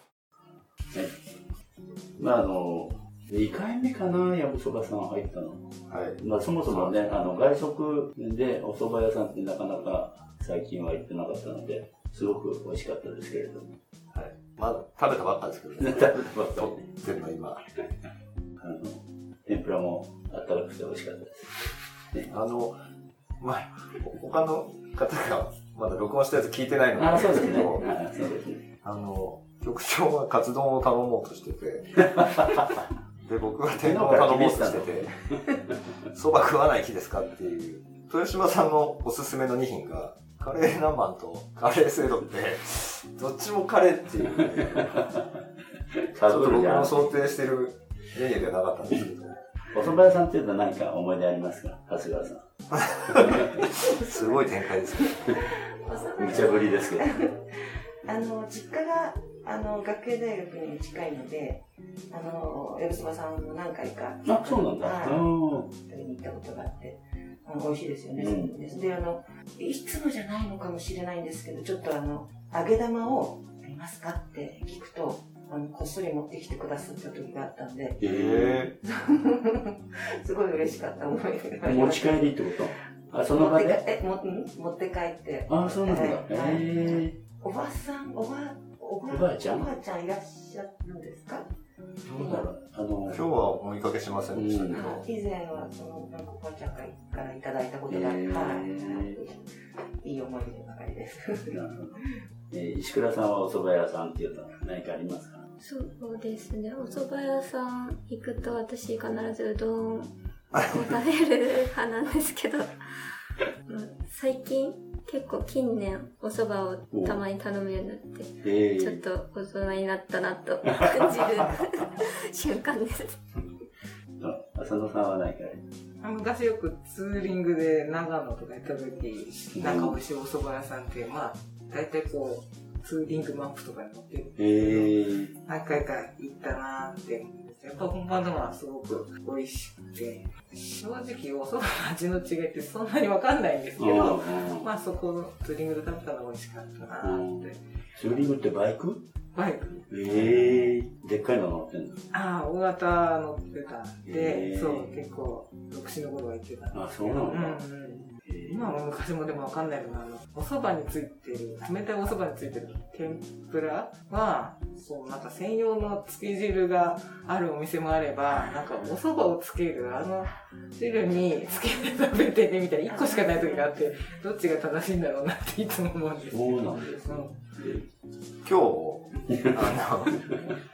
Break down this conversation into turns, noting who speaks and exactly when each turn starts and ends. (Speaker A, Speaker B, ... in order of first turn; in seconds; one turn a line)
Speaker A: 2.2-13.7
Speaker B: 5.9-7.0
Speaker B: 14.1-17.6
Speaker A: 15.8-16.9
Speaker A: 18.6-21.5
Speaker B: 22.2-22.8
Speaker B: 23.4-27.9
Speaker A: 26.9-28.6
Speaker B: 28.8-32.0
Speaker A: 32.1-32.6
Speaker B: 33.2-35.1
Speaker A: 33.8-35.6
Speaker B: 36.1-45.1
Speaker A: 44.4-45.2
Speaker A: 46.1-47.1
Speaker B: 46.3-49.3
Speaker A: 49.7-52.5
Speaker B: 52.8-55.4
Speaker A: 53.1-53.7
Speaker C: 55.3-78.0
Speaker A: 56.2-57.1
Speaker A: 64.2-65.7
Speaker A: 68.2-68.6
Speaker A: 78.0-78.7
Speaker B: 78.0-78.7
Speaker C: 78.8-82.3
Speaker A: 81.6-83.8
Speaker C: 83.3-91.5
Speaker A: 85.5-87.2
Speaker A: 89.1-89.7
Speaker B: 92.0-92.5
Speaker C: 92.1-92.5
Speaker A: 92.2-93.2
Speaker B: 93.1-95.0
Speaker A: 94.3-95.0
Speaker C: 94.7-99.4
Speaker A: 97.9-99.2
Speaker C: 100.0-101.5
Speaker A: 101.5-105.4
Speaker D: 105.6-112.7
Speaker B: 110.5-111.0
Speaker D: 113.7-123.2
Speaker A: 116.9-117.2
Speaker A: 118.4-119.0
Speaker A: 124.2-125.6
Speaker E: 126.0-134.9
Speaker A: 129.6-130.0
Speaker A: 134.4-135.3
Speaker E: 135.4-147.6
Speaker A: 143.8-144.7
Speaker A: 147.0-149.1
Speaker E: 149.3-150.6
Speaker A: 149.9-152.1
Speaker E: 152.1-177.3
Speaker A: 154.0-154.9
Speaker A: 156.7-157.6
Speaker A: 158.2-158.7
Speaker C: 172.8-174.2
Speaker A: 176.3-177.9
Speaker B: 178.4-180.3